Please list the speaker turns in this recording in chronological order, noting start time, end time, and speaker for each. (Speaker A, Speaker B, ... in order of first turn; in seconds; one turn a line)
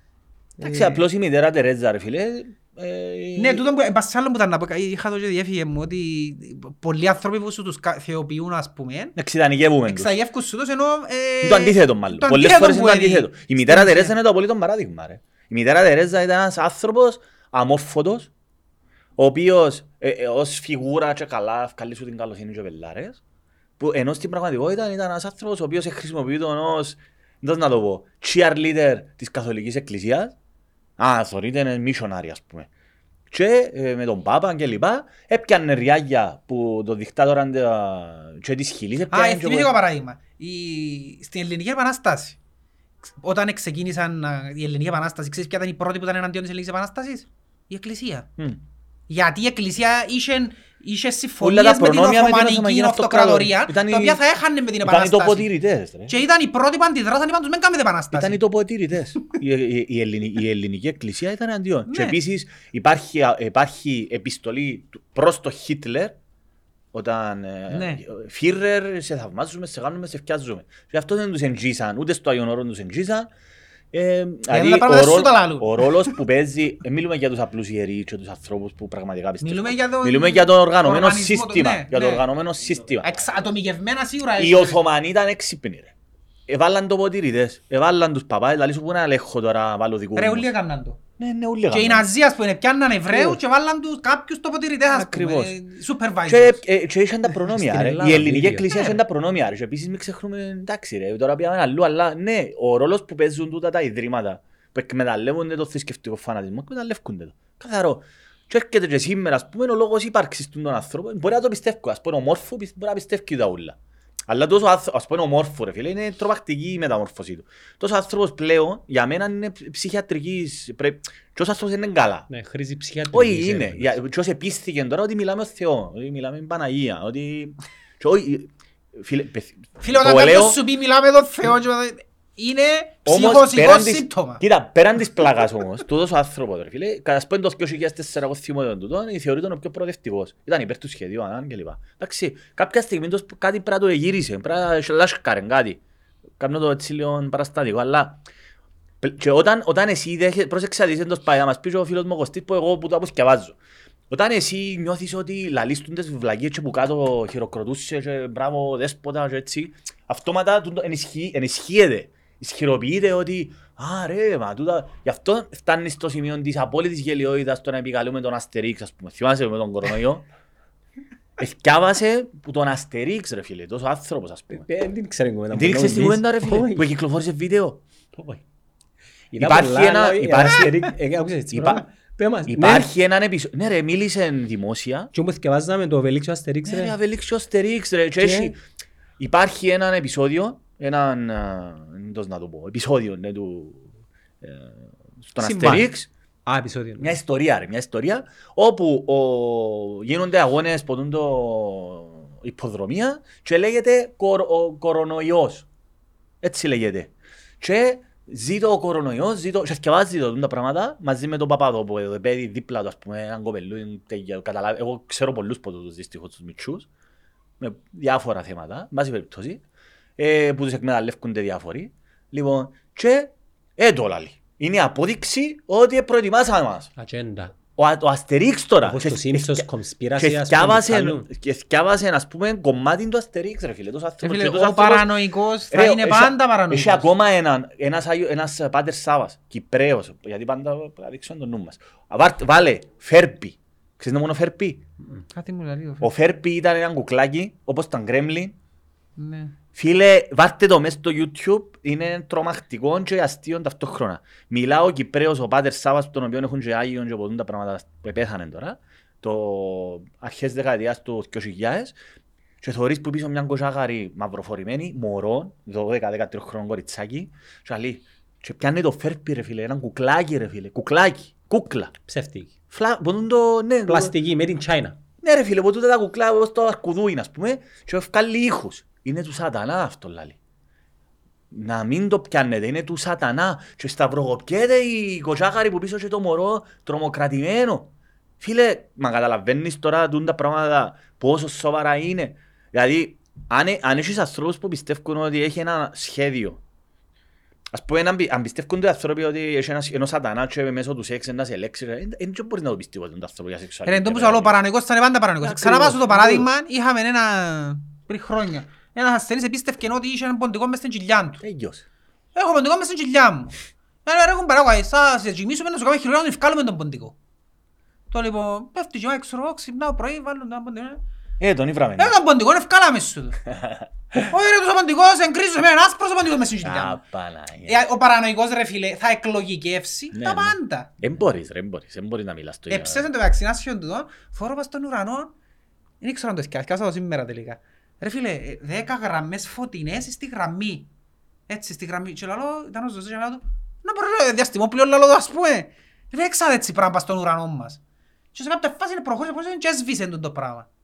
Speaker A: 0.6-1.0
Speaker B: 0.6-3.6
Speaker A: 3.4-9.2
Speaker B: 9.2-10.1
Speaker A: 9.9-14.1
Speaker B: 11.4-18.3
Speaker B: 19.2-23.2
Speaker B: 23.8-30.3
Speaker B: 31.0-32.7
Speaker B: 33.3-39.7
Speaker A: 39.1-42.4
Speaker A: 43.2-48.3
Speaker A: 49.1-55.5
Speaker B: 51.4-54.2
Speaker B: 54.8-56.1
Speaker A: 56.1-58.4
Speaker B: 58.1-66.2
Speaker A: 61.9-62.2
Speaker B: 66.9-73.3
Speaker A: 67.7-68.0
Speaker B: 73.9-83.1
Speaker A: 74.5-76.2
Speaker A: 79.4-82.2
Speaker A: 83.0-84.8
Speaker B: 84.4-85.9
Speaker B: 86.5-90.5
Speaker A: 90.2-91.0
Speaker B: 91.2-92.1
Speaker A: 91.7-96.6
Speaker B: 93.1-93.4
Speaker B: 94.9-95.5
Speaker B: 96.3-113.8
Speaker C: 97.5-98.7
Speaker A: 98.7-99.0
Speaker B: 114.3-122.3
Speaker C: 122.3-124.0
Speaker B: 123.1-130.6
Speaker A: 129.8-134.4
Speaker B: 133.1-145.8
Speaker B: 146.4-148.2
Speaker B: 149.0-153.6
Speaker B: 154.1-170.2
Speaker B: 171.4-174.7
Speaker C: 174.5-176.9
Speaker B: 175.5-177.8
Speaker C: 178.1-178.4
Speaker C: 179.3-182.9
Speaker B: 179.4-180.9
Speaker B: 181.5-181.8
Speaker B: 182.5-185.1
Speaker C: 185.1-186.9
Speaker B: 186.7-188.6
Speaker C: 188.2-188.5
Speaker B: 189.2-193.8
Speaker B: 194.4-196.1
Speaker C: 195.4-195.9
Speaker C: 196.4-197.2
Speaker B: 197.0-205.7
Speaker B: 206.4-216.9
Speaker B: 217.6-219.6
Speaker B: 220.2-226.9
Speaker C: 226.9-227.6
Speaker B: 227.8-229.6
Speaker C: 228.8-231.3
Speaker B: 230.2-235.1
Speaker A: 234.2-237.1
Speaker B: 235.7-244.8
Speaker A: 245.3-246.1
Speaker B: 246.0-248.5
Speaker A: 249.2-249.5
Speaker B: 249.7-261.9
Speaker B: 262.6-271.9
Speaker C: 272.1-272.5
Speaker B: 272.7-274.1
Speaker C: 273.9-275.0
Speaker B: 275.2-280.4
Speaker B: 281.5-296.6
Speaker B: 297.7-304.6
Speaker A: 303.9-311.4
Speaker B: 305.4-306.5
Speaker B: 311.4-311.8
Speaker A: 312.3-317.1
Speaker A: 318.1-321.0
Speaker B: 321.4-322.1
Speaker A: 322.0-323.4
Speaker B: 323.4-324.3
Speaker A: 324.3-327.0
Speaker B: 326.6-327.8
Speaker A: 327.6-330.9
Speaker B: 330.1-333.1
Speaker A: 332.7-335.3
Speaker A: 336.0-340.9
Speaker A: 341.5-347.8
Speaker A: 348.3-350.7